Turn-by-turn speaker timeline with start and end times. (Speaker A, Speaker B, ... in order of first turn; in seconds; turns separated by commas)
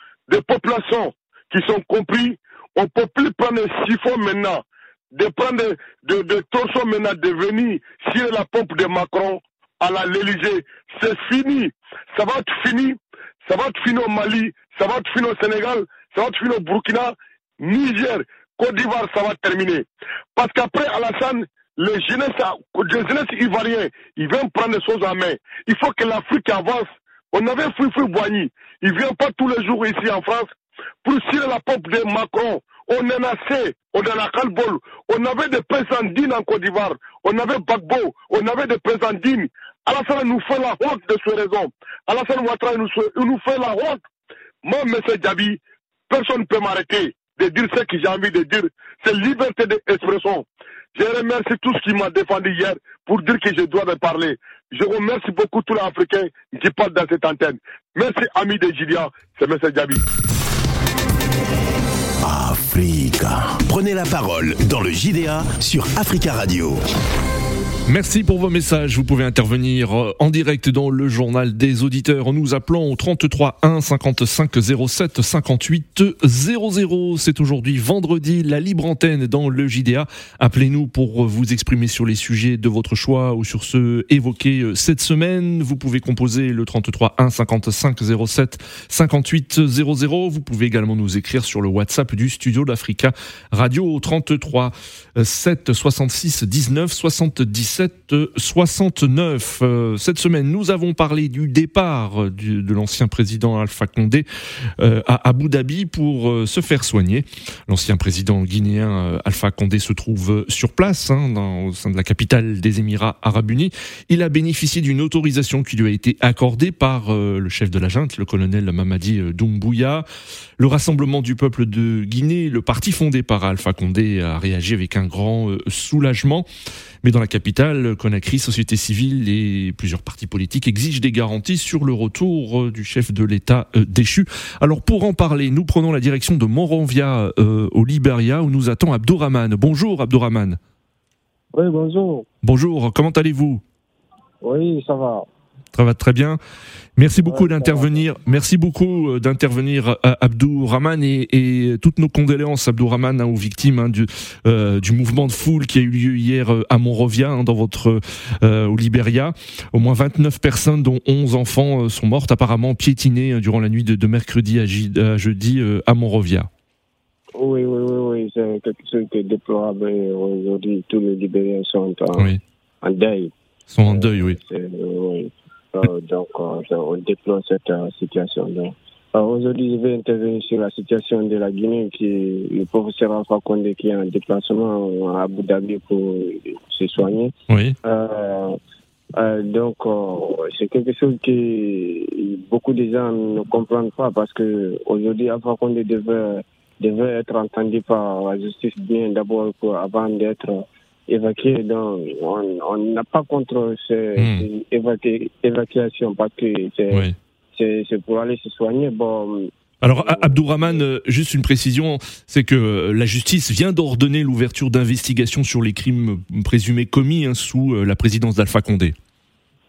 Speaker A: 0.3-44.0, Speaker A: 44.6-60.0, Speaker B: 62.2-66.8, Speaker C: 67.9-104.2, Speaker C: 104.8-120.0, Speaker C: 120.6-126.5, Speaker C: 127.0-140.6, Speaker D: 141.5-142.3, Speaker C: 142.4-143.6, Speaker D: 144.4-145.2, Speaker C: 145.7-146.4, Speaker C: 147.0-166.5, Speaker D: 147.2-148.0, Speaker D: 167.3-172.3, Speaker D: 172.8-173.3, Speaker C: 173.7-174.4, Speaker D: 173.8-188.6, Speaker C: 187.5-187.8, Speaker D: 189.2-210.8, Speaker C: 204.2-204.4, Speaker C: 209.8-218.9